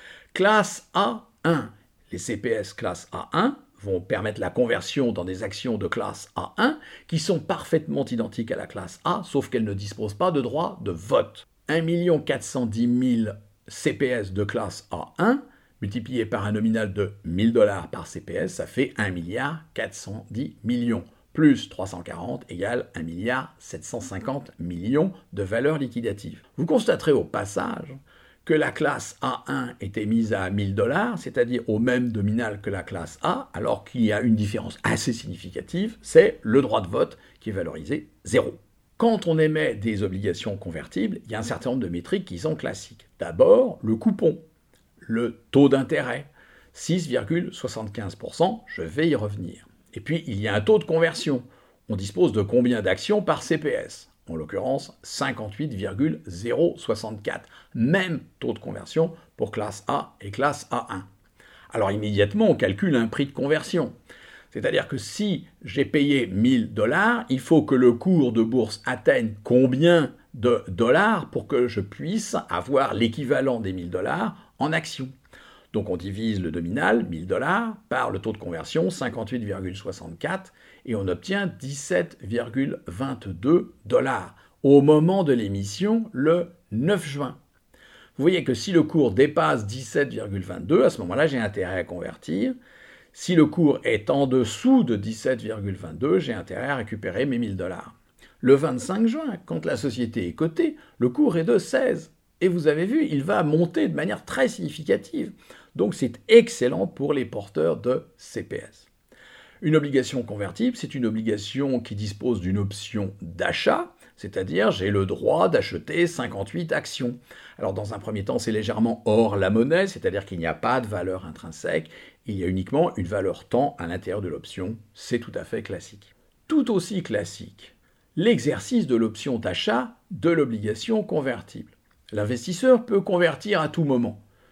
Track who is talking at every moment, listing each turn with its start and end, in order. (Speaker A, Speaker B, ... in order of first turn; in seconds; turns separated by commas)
Speaker A: 0.3-44.4, Speaker A: 45.0-61.1, Speaker A: 61.7-63.9, Speaker A: 64.5-75.1, Speaker A: 75.7-87.4, Speaker A: 88.2-92.5, Speaker A: 93.1-108.9, Speaker A: 109.6-134.2